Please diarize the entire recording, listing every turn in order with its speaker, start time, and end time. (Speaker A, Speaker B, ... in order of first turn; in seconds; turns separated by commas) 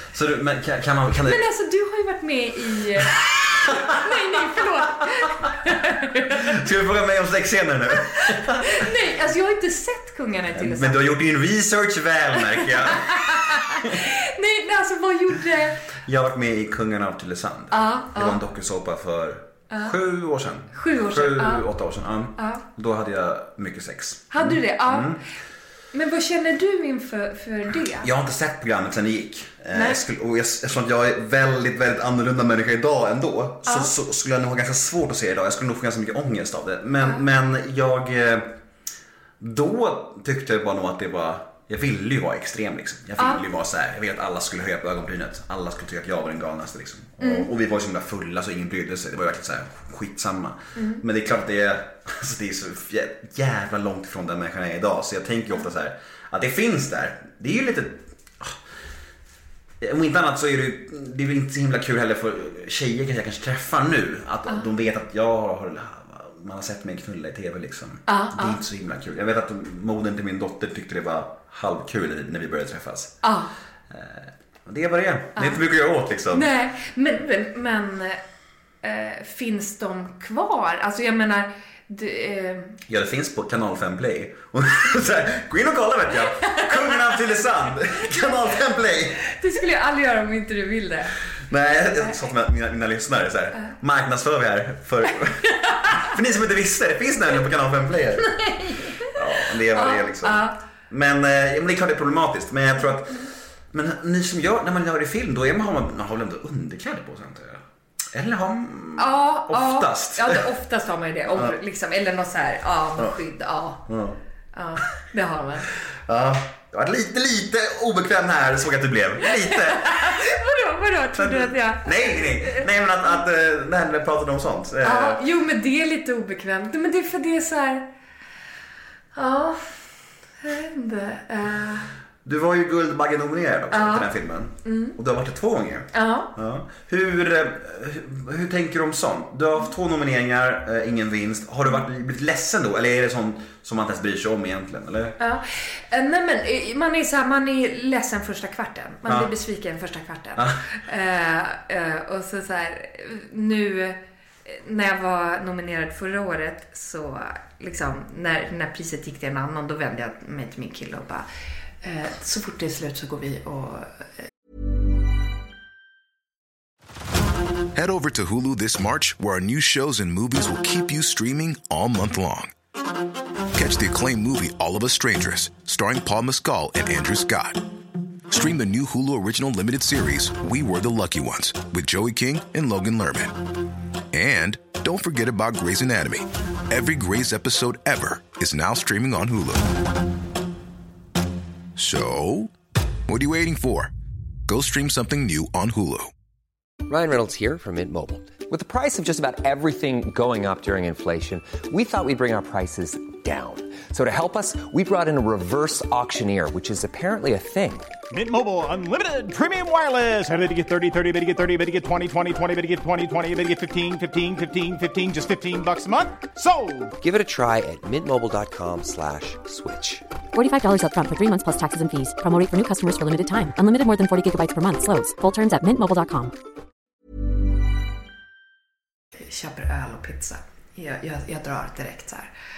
Speaker A: 0.1-1.4, Speaker B: 1.2-6.5, Speaker A: 3.7-4.4, Speaker A: 6.3-8.8, Speaker B: 8.1-11.1, Speaker A: 10.5-14.0, Speaker B: 12.6-15.8, Speaker A: 16.0-25.2, Speaker B: 17.7-18.4, Speaker B: 20.7-21.7, Speaker B: 22.4-22.6, Speaker B: 24.3-25.2, Speaker B: 25.9-28.1, Speaker A: 28.0-38.5, Speaker B: 29.7-30.0, Speaker B: 33.6-33.9, Speaker A: 39.4-58.6, Speaker B: 43.2-43.4, Speaker B: 47.2-47.5, Speaker B: 50.8-51.0, Speaker A: 59.8-73.2, Speaker B: 68.1-68.6, Speaker B: 73.2-73.5, Speaker A: 73.9-76.5, Speaker B: 76.3-78.2, Speaker B: 78.8-82.8, Speaker A: 82.9-89.2, Speaker B: 86.4-87.0, Speaker B: 89.2-91.1, Speaker A: 91.5-98.3, Speaker B: 95.6-95.9, Speaker B: 98.2-99.1, Speaker A: 99.0-110.4, Speaker B: 99.7-100.5, Speaker B: 109.0-113.8, Speaker A: 111.3-111.5, Speaker A: 113.8-114.2, Speaker B: 114.5-115.7, Speaker A: 116.1-120.3, Speaker B: 119.3-122.6, Speaker A: 121.2-125.2, Speaker B: 124.8-127.8, Speaker B: 129.1-131.9, Speaker A: 132.2-145.2, Speaker B: 133.7-134.1, Speaker B: 134.6-134.9, Speaker B: 135.9-136.3, Speaker B: 145.2-161.3, Speaker B: 161.8-164.0, Speaker C: 167.7-172.5, Speaker C: 173.5-177.6, Speaker C: 178.3-183.3, Speaker C: 184.1-189.8, Speaker C: 191.8-192.5, Speaker C: 193.1-193.9, Speaker C: 194.5-196.1, Speaker D: 196.9-207.9, Speaker E: 208.1-216.9, Speaker D: 217.0-220.0, Speaker F: 220.3-226.3, Speaker B: 229.1-232.3